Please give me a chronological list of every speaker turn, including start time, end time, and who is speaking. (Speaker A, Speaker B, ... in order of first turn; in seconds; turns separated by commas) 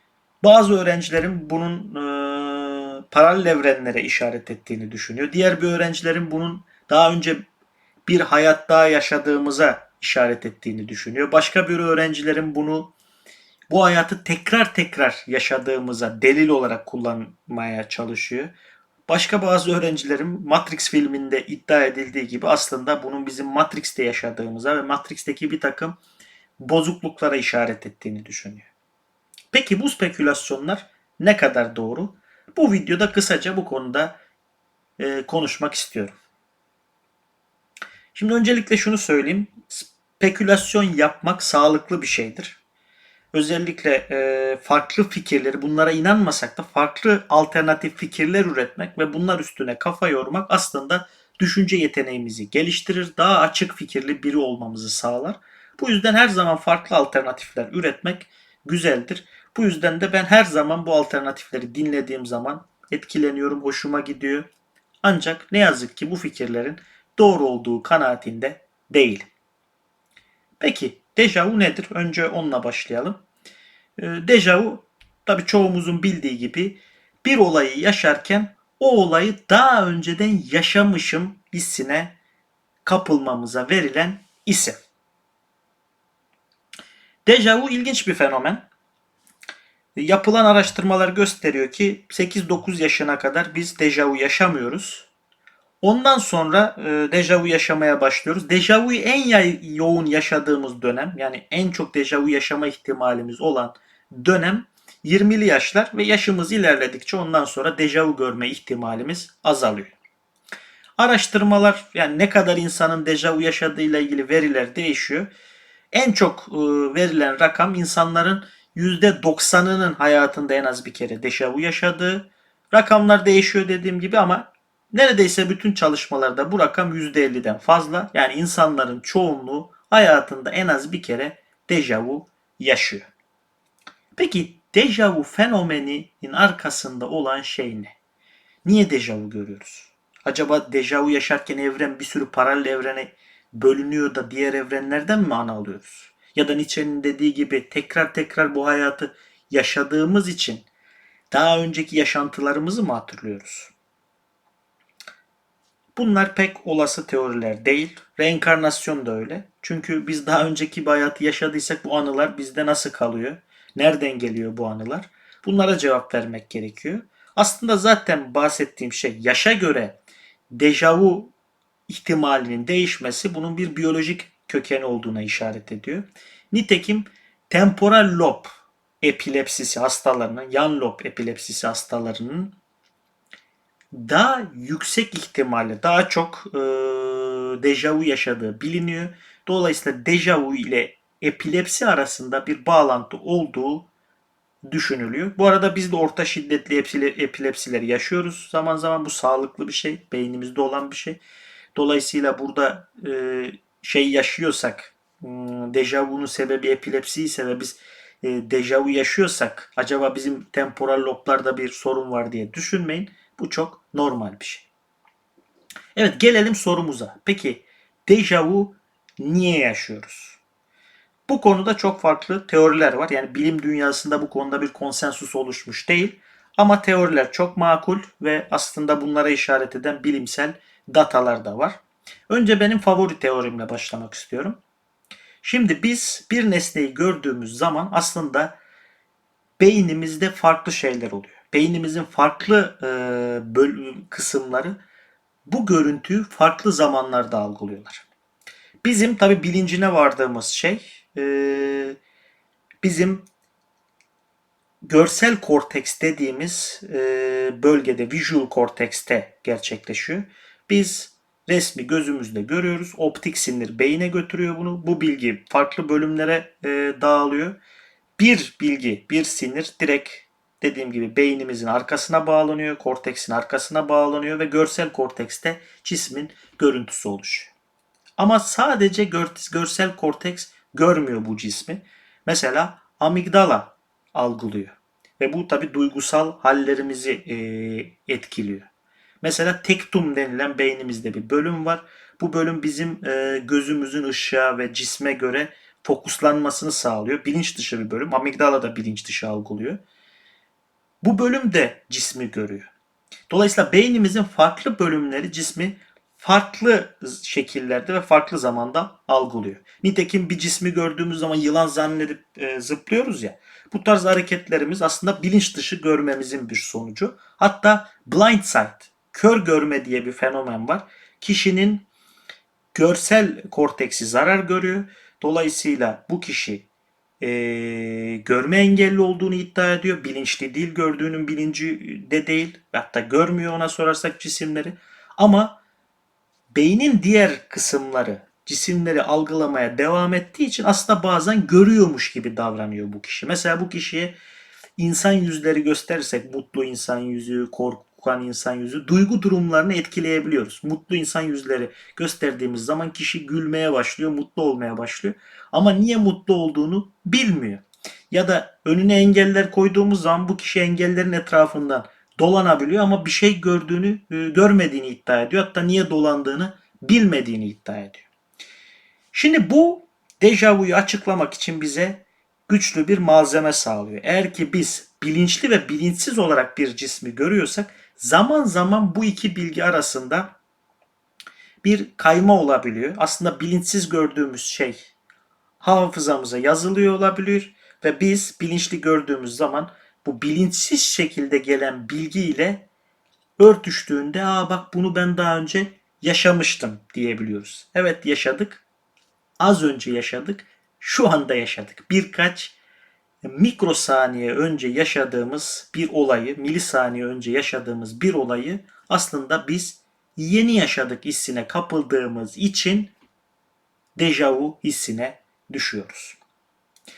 Speaker A: 0.4-7.5, Speaker A: 8.1-12.9, Speaker A: 13.7-18.5, Speaker A: 19.1-26.0, Speaker A: 26.6-28.7, Speaker A: 29.5-34.2, Speaker A: 35.0-36.2, Speaker A: 38.1-42.6, Speaker A: 43.3-64.5, Speaker A: 65.0-69.3, Speaker A: 70.6-73.2, Speaker A: 74.0-82.2, Speaker A: 82.8-84.8, Speaker A: 87.3-88.7, Speaker A: 90.0-95.1, Speaker A: 95.8-110.0, Speaker A: 111.0-115.3, Speaker A: 115.9-133.1, Speaker A: 134.2-137.9, Speaker A: 138.7-150.7, Speaker A: 151.3-153.7, Speaker A: 155.9-170.0, Speaker A: 170.5-171.3, Speaker A: 171.9-182.6, Speaker A: 183.9-193.9, Speaker A: 194.6-201.2, Speaker A: 201.8-214.7, Speaker A: 215.9-220.4, Speaker A: 221.3-234.6, Speaker A: 235.4-238.6, Speaker A: 239.6-244.8, Speaker A: 245.5-248.1, Speaker A: 248.8-252.0, Speaker A: 252.8-253.3, Speaker A: 254.8-267.6, Speaker A: 268.2-277.5, Speaker A: 278.2-288.7, Speaker A: 289.2-299.8, Speaker A: 301.0-302.7, Speaker A: 303.3-321.9, Speaker A: 322.7-326.7, Speaker A: 327.2-335.6, Speaker A: 336.5-344.2, Speaker A: 344.8-368.1, Speaker A: 369.1-380.4, Speaker A: 381.6-384.9, Speaker A: 385.6-392.7, Speaker A: 393.4-398.6, Speaker A: 399.4-402.6, Speaker A: 403.2-412.9, Speaker A: 414.0-416.2